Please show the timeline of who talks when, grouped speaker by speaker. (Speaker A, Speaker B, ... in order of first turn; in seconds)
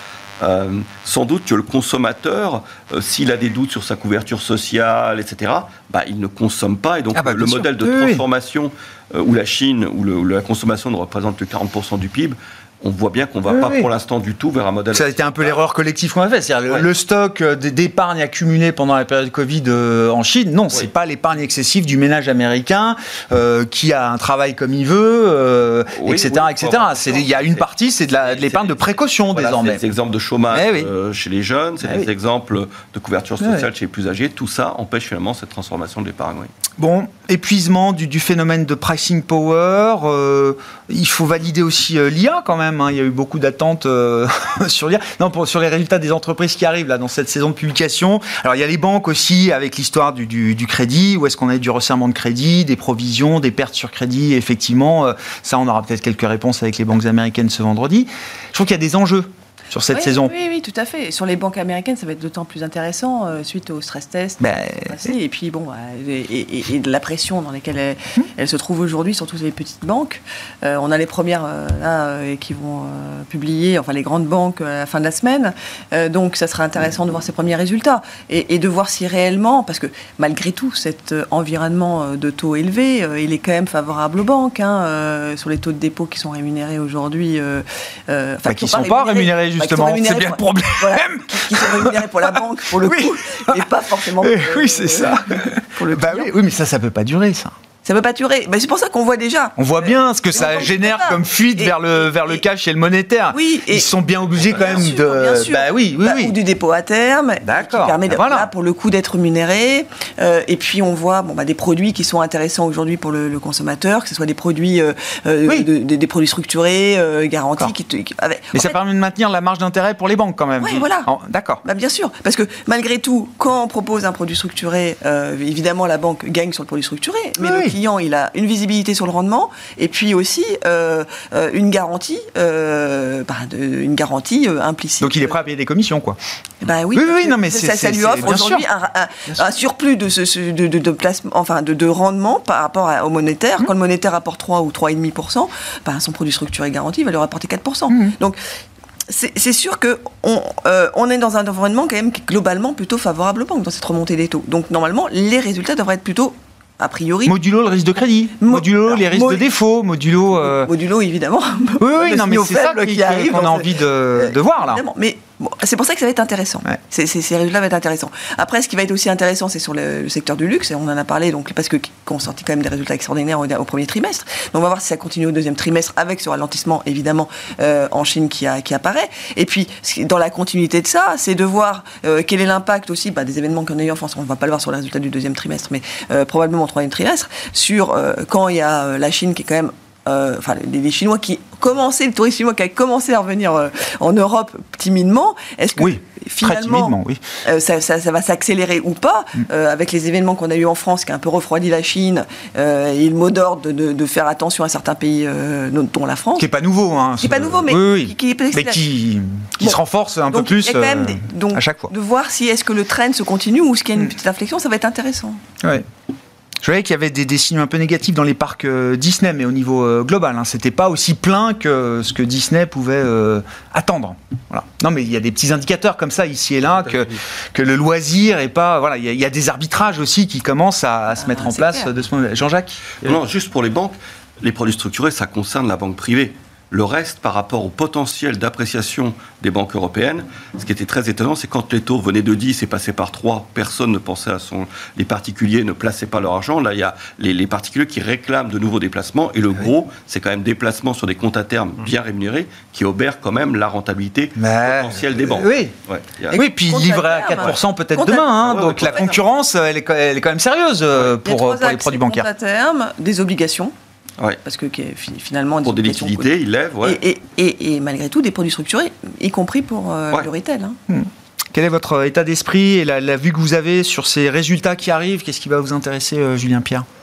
Speaker A: 0.4-15.6, 26.0-27.6, 28.2-36.5, 233.0-256.4, 258.4-259.2, 265.6-267.0
Speaker B: 7.1-8.2, 13.5-13.9, 14.9-29.8, 30.5-30.9, 33.4-33.7, 36.8-60.3, 64.4-65.1, 88.5-93.6, 94.2-97.5, 99.6-106.3, 107.4-108.5, 118.5-121.6, 127.4-127.8, 135.0-136.2, 136.9-138.6, 157.2-160.7, 161.8-164.8, 195.8-197.2, 206.4-211.9, 215.6-215.9, 216.6-233.2, 254.4-255.7, 256.3-262.3, 270.9-276.9
Speaker C: 59.9-96.3, 97.8-102.4, 103.3-118.8, 120.6-121.1, 121.6-135.3, 136.6-148.4, 149.1-157.4, 158.4-159.4, 160.4-206.5, 207.2-208.8, 209.6-215.4, 231.2-231.9, 256.3-259.1, 261.1-263.7, 264.4-270.8